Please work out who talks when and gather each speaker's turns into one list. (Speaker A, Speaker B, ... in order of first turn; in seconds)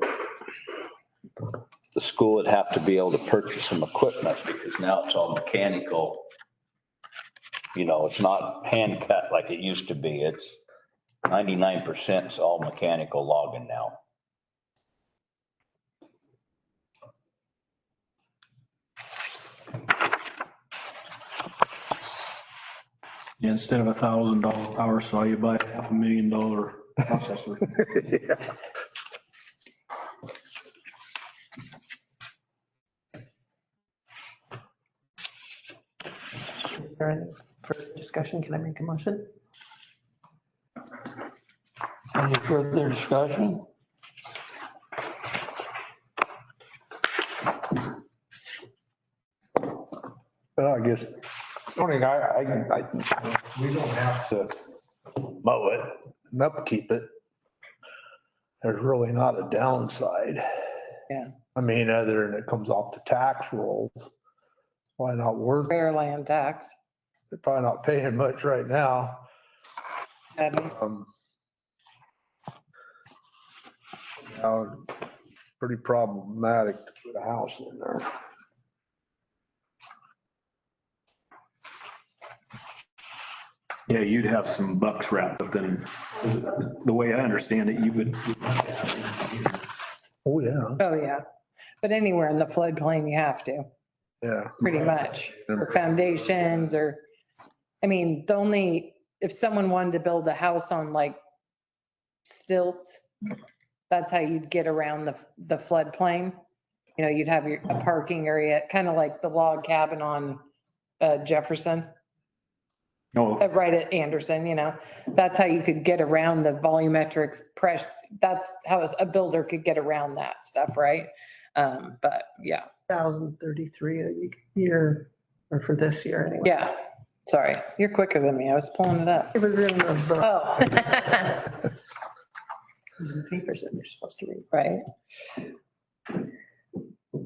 Speaker A: 1.9-6.2, 7.8-10.6, 11.3-14.0, 42.1-43.6
Speaker B: 23.4-28.2, 83.9-89.6, 113.2-113.4
Speaker C: 36.4-39.3, 122.9-126.5, 129.3-130.7, 133.0-134.5
Speaker D: 50.6-54.5, 55.2-57.1, 58.6-60.4, 61.5-64.1, 65.0-65.7, 67.3-69.3, 70.6-71.1, 74.2-74.9, 75.6-78.1, 90.2-90.8, 94.2-94.7
Speaker E: 65.7-66.7, 70.4-70.7, 90.8-91.2, 91.8-93.7, 94.6-97.0, 97.8-101.2, 102.2-103.0, 103.9-106.4, 107.0-110.4, 111.0-111.9, 113.4-122.7, 126.4-129.4, 130.2-131.4, 134.5-134.8